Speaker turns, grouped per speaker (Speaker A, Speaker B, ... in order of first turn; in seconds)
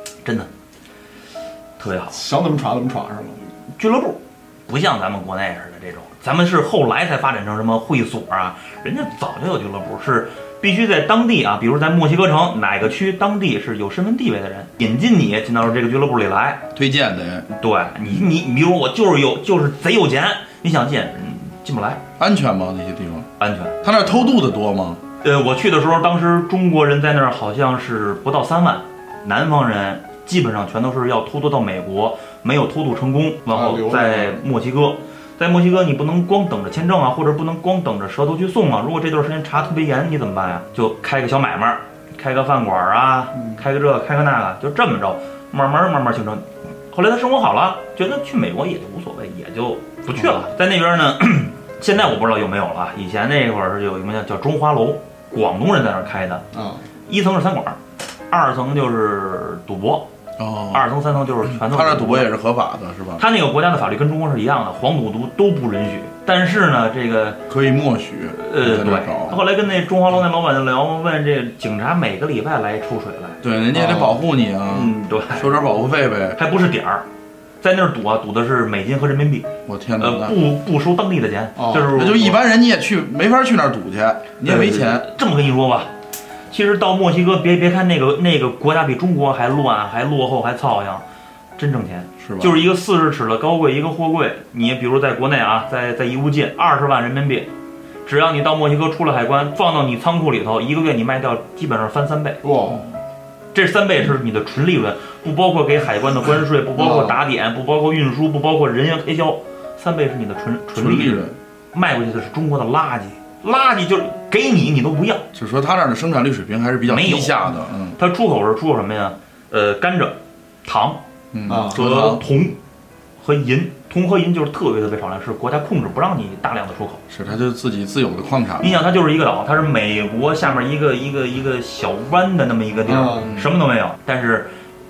Speaker A: 0.2-0.5, 1.8-2.2, 3.8-16.7, 17.5-22.0, 23.4-23.8, 25.2-56.4, 57.1-57.8, 58.3-60.1, 60.7-62.3, 63.2-67.4, 68.3-73.4, 74.7-75.5, 76.3-77.0, 77.6-82.4, 84.5-85.9, 86.5-91.0, 91.6-97.5, 98.0-102.4, 103.5-115.2, 116.8-121.0, 121.6-122.6, 123.2-127.0, 128.6-134.5
Speaker B: 2.1-3.4, 33.5-34.4, 43.3-43.6, 56.5-56.8, 73.7-74.2, 81.6-81.9, 102.4-102.8, 106.8-107.2, 121.5-121.8, 132.9-133.4
Speaker C: 16.7-17.5, 22.2-23.3, 23.8-25.0, 60.4-60.9, 61.5-63.2, 67.5-69.4, 73.4-76.4, 79.7-80.4, 81.9-85.1, 92.2-92.6, 110.8-111.3, 115.3-118.0, 121.3-122.2, 127.1-128.8